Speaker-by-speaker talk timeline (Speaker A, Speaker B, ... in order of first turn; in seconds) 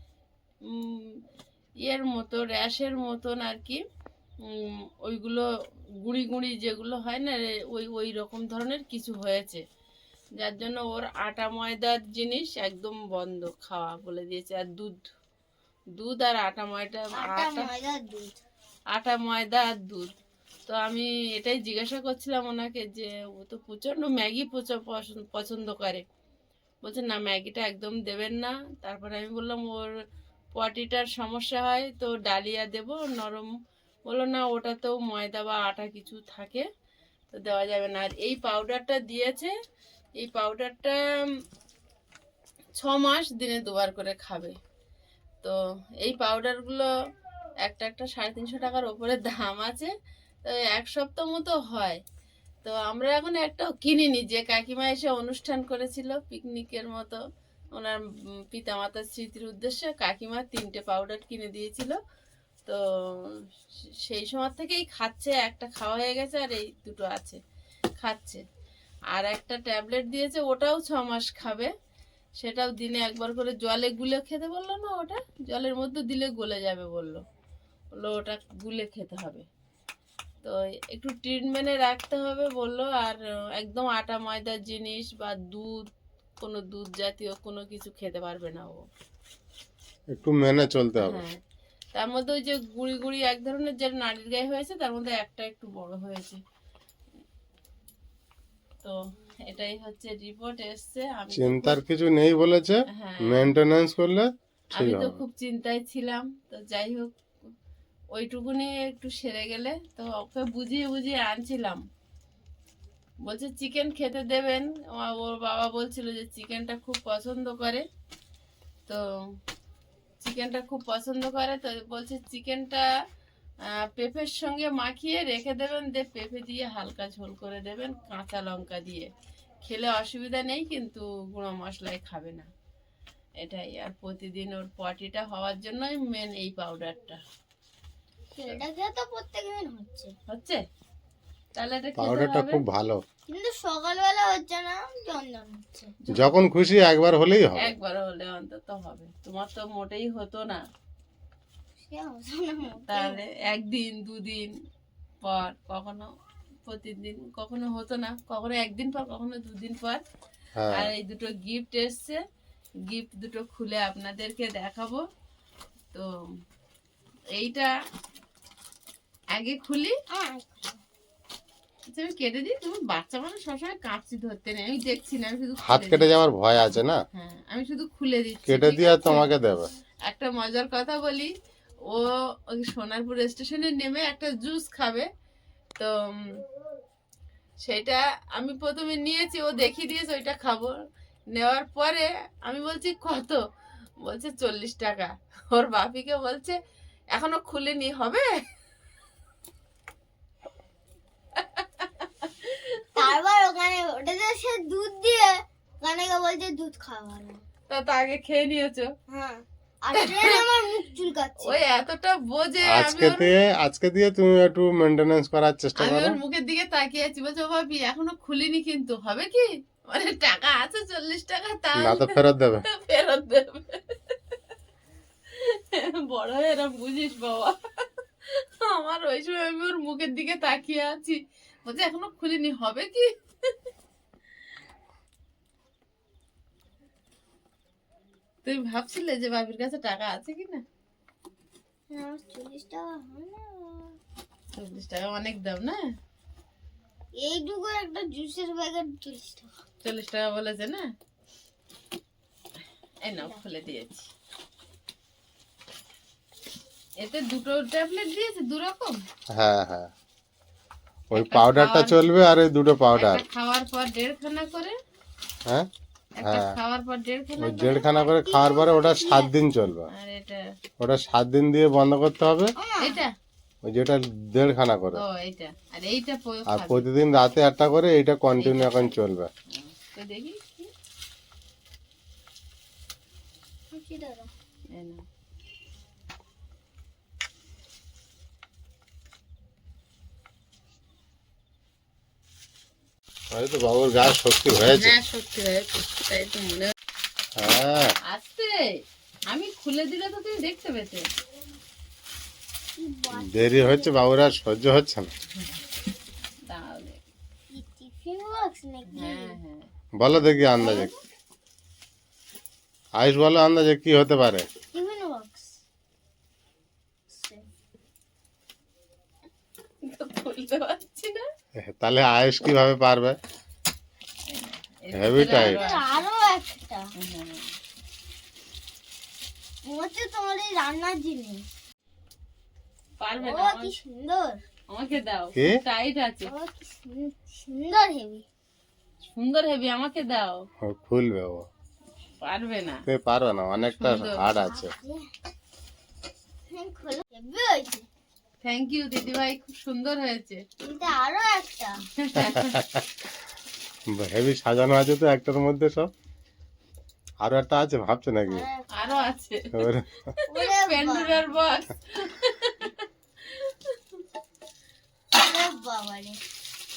Speaker A: 0.7-1.2, 1.8-3.8, 4.5-5.5, 6.0-9.6, 10.4-15.1, 16.0-17.7, 18.9-26.0, 26.8-29.9, 30.6-33.5, 34.1-36.7, 37.3-39.5, 40.2-41.0, 42.8-44.6, 45.4-46.9, 47.6-49.9, 50.5-52.0, 52.6-57.2, 57.7-62.0, 62.7-63.4, 64.0-67.4, 68.0-68.4, 69.1-71.7, 72.4-77.2, 77.9-79.5, 80.4-85.9, 86.4-88.8, 91.0-91.4, 92.0-96.4, 98.8-101.8, 102.9-103.5, 104.7-107.1, 108.1-111.8, 113.2-117.8, 120.2-122.9, 123.6-129.1, 129.6-132.5, 133.4-137.2, 140.3-140.6, 141.6-142.6, 146.1-146.4, 147.6-150.6, 152.9-154.5, 155.2-156.1, 156.7-160.0, 160.7-162.2, 162.9-165.0, 167.3-167.7, 169.3-170.0, 171.9-176.3, 177.1-179.3, 180.1-185.1, 185.8-186.4, 187.6-190.8, 191.3-193.4, 194.0-196.6, 197.1-198.3, 201.4-203.1, 207.7-208.9, 209.9-210.5, 211.4-213.3, 215.8-224.2, 225.3-233.5, 238.4-240.6, 244.6-245.8, 249.8-250.8, 253.0-254.1, 257.0-259.0, 261.1-262.0, 262.9-264.8, 266.2-267.8, 269.9-270.5, 272.8-273.1, 274.9-276.9, 278.4-279.0, 279.5-280.7, 284.7-285.0, 294.7-296.7, 298.1-298.7, 299.3-301.1, 306.5-307.0, 308.9-309.7, 319.8-321.2, 324.3-326.0, 327.0-327.5, 333.0-333.8, 334.7-336.3, 339.1-340.5, 342.2-342.9, 343.8-344.2, 348.4-350.4, 352.0-352.6, 358.7-364.0
Speaker B: 17.1-18.4, 138.3-140.1, 143.3-145.9, 151.8-153.2, 170.1-170.8, 203.0-207.4, 209.1-211.6, 241.9-244.0, 247.2-249.6, 267.6-269.3, 272.6-273.0, 283.7-284.3, 302.8-304.0, 307.5-309.4, 310.6-310.9, 314.7-315.6, 317.1-317.5, 325.2-326.9, 329.6-331.5, 333.2-334.4, 336.3-338.2, 344.4-345.1, 346.5-347.9, 350.6-351.8, 358.3-359.1, 360.3-361.3, 365.1-366.2
Speaker C: 90.1-91.2, 101.3-105.2, 142.0-143.0, 146.1-147.7, 160.6-160.9, 175.6-177.0, 178.5-179.7, 212.7-216.2, 221.8-222.6, 259.3-259.9, 261.1-263.2, 266.2-266.5, 267.4-269.9, 270.8-272.5, 273.6-275.0, 276.5-279.3, 293.3-295.0, 297.4-297.9, 303.1-305.1, 310.0-310.9, 313.0-314.5, 321.6-323.2, 324.9-325.6, 340.6-341.5, 342.9-344.8, 352.2-352.9, 353.9-355.9, 357.2-358.5, 359.5-359.9